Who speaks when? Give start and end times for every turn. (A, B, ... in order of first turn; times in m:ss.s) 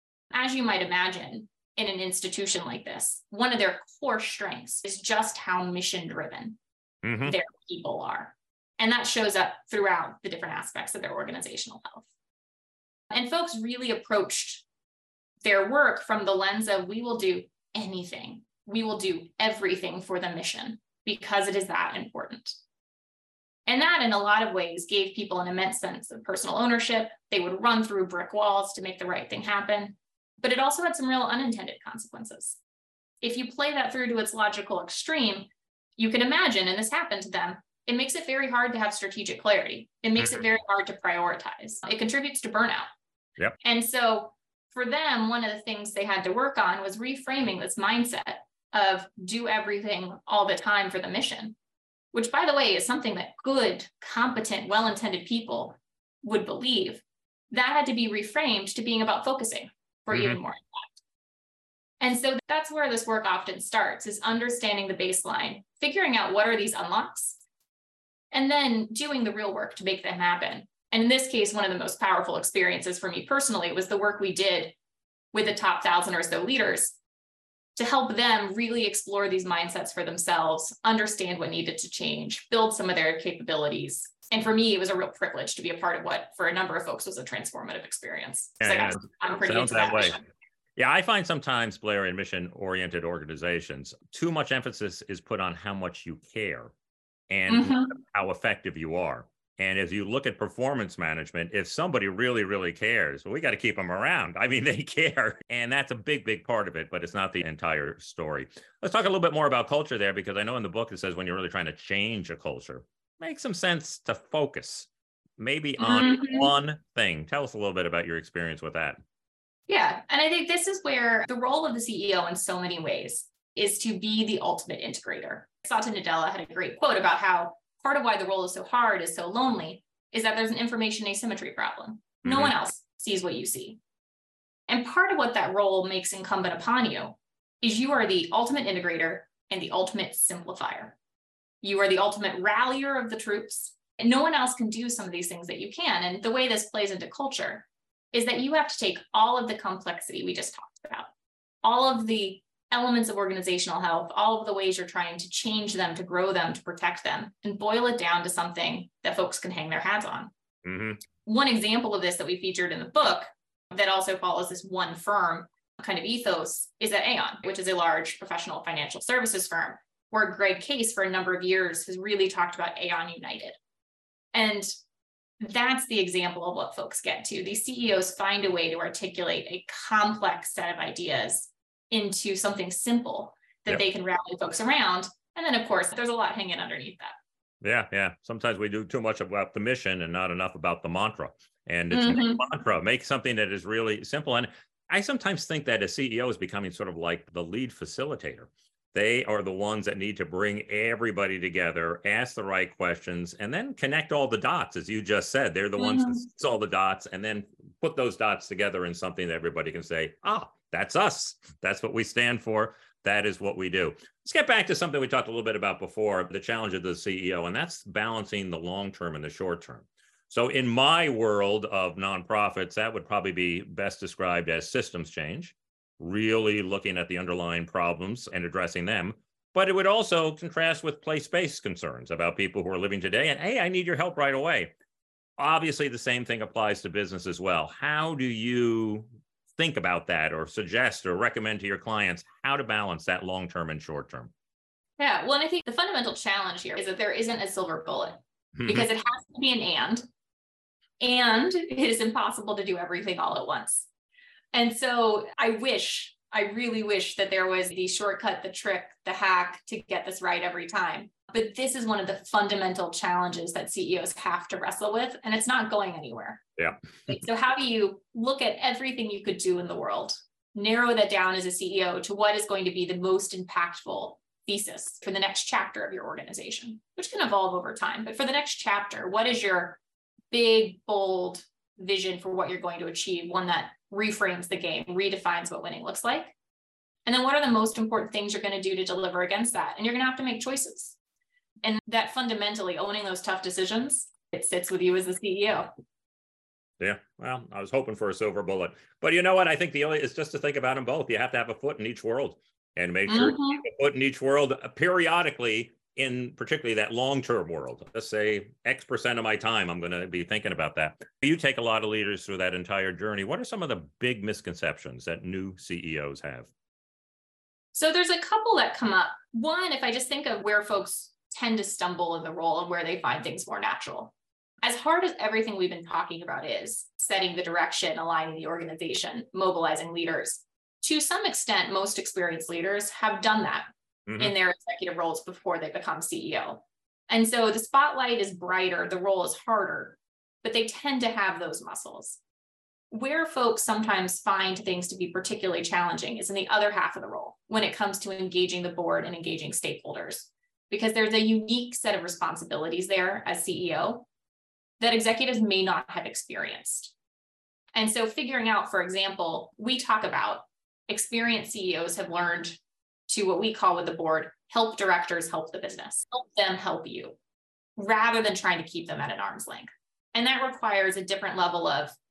0:00.3-0:06.6 A
0:07.0-0:07.4 B
0:07.2-0:12.1 A
0:13.1-0:14.6 A
0:15.4-0:22.6 A
0:23.7-0:32.6 A
0:33.2-0:42.9 A
0:43.6-0:51.6 A
0:52.1-1:00.9 A
1:00.1-1:00.4 B
1:02.0-1:07.4 A
1:08.3-1:14.8 A
1:15.3-1:17.0 A
1:17.8-1:30.2 A
1:28.6-1:30.2 B
1:30.8-1:36.7 B
1:37.3-1:59.0 B
1:37.5-1:37.9 A
1:55.8-1:56.5 A
1:59.7-2:13.8 A
2:12.2-2:12.5 B
2:14.7-2:21.0 A
2:21.6-2:31.1 A
2:31.6-2:40.3 A
2:40.6-2:41.0 B
2:41.2-2:53.6 A
2:54.3-2:54.7 A
2:55.4-3:07.2 A
3:07.6-3:54.7 B
3:11.9-3:12.4 A
3:25.8-3:26.2 A
3:55.4-4:04.3 B
4:05.0-4:10.0 A
4:08.6-4:08.9 B
4:11.0-4:13.9 A
4:14.5-4:26.4 A
4:27.1-4:39.8 A
4:40.3-4:46.4 A
4:47.1-4:51.0 A
4:51.6-4:55.7 A
4:56.8-5:16.5 B
5:03.1-5:03.6 A
5:17.7-5:42.2 A
5:34.1-5:34.3 B
5:42.9-5:54.0 A
5:54.8-5:56.9 A
5:57.8-6:07.2 A
6:07.8-6:12.0 A